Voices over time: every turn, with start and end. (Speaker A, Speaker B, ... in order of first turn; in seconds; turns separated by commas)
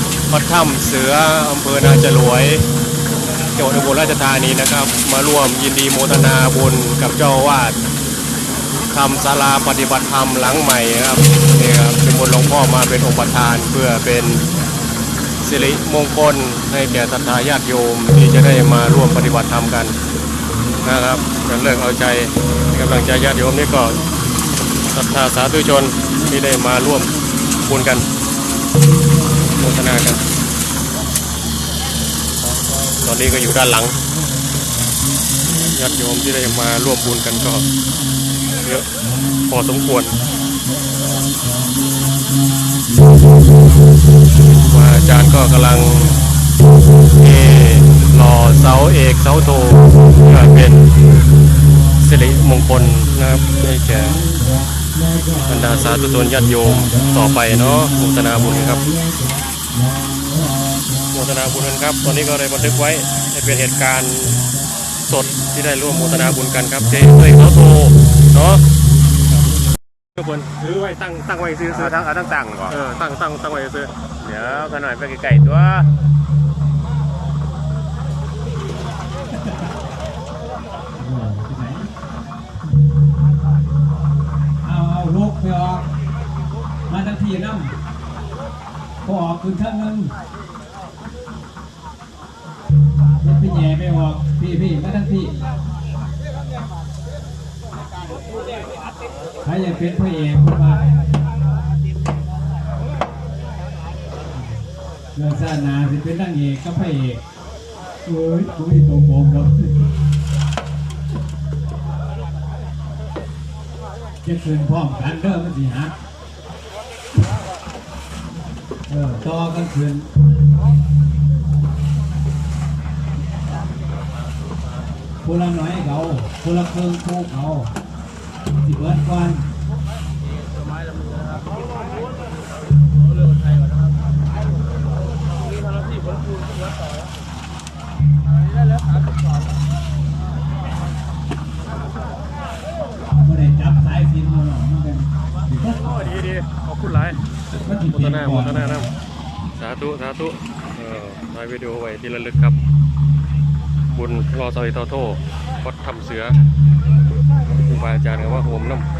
Speaker A: 0.3-2.7, Speaker A: 3.4-7.8, Speaker A: 8.9-14.4, Speaker A: 15.4-19.9, Speaker A: 20.8-24.1, Speaker A: 24.8-28.1, Speaker A: 29.5-30.2, Speaker A: 33.0-34.0, Speaker A: 35.5-37.7, Speaker A: 38.6-38.9, Speaker A: 39.5-40.2, Speaker A: 44.4-46.3, Speaker A: 47.1-51.0, Speaker A: 51.9-54.3, Speaker A: 55.4-58.9, Speaker A: 61.1-64.5, Speaker A: 65.0-68.7, Speaker A: 69.3-69.5, Speaker A: 70.1-72.1, Speaker B: 72.1-72.7, Speaker A: 72.7-74.1, Speaker B: 74.2-75.9, Speaker C: 81.0-81.9, Speaker C: 84.6-85.9, Speaker C: 86.9-87.8, Speaker C: 89.0-90.1, Speaker C: 93.2-95.4, Speaker C: 99.4-100.8, Speaker C: 105.1-107.2, Speaker C: 108.0-109.9, Speaker C: 114.2-115.9, Speaker C: 118.9-120.1, Speaker C: 125.2-127.7, Speaker C: 128.6-129.4, Speaker B: 130.5-131.4, Speaker C: 143.2-146.0, Speaker A: 145.8-148.9, Speaker C: 147.5-148.9, Speaker A: 149.5-152.6, Speaker A: 153.9-156.4, Speaker A: 157.6-158.9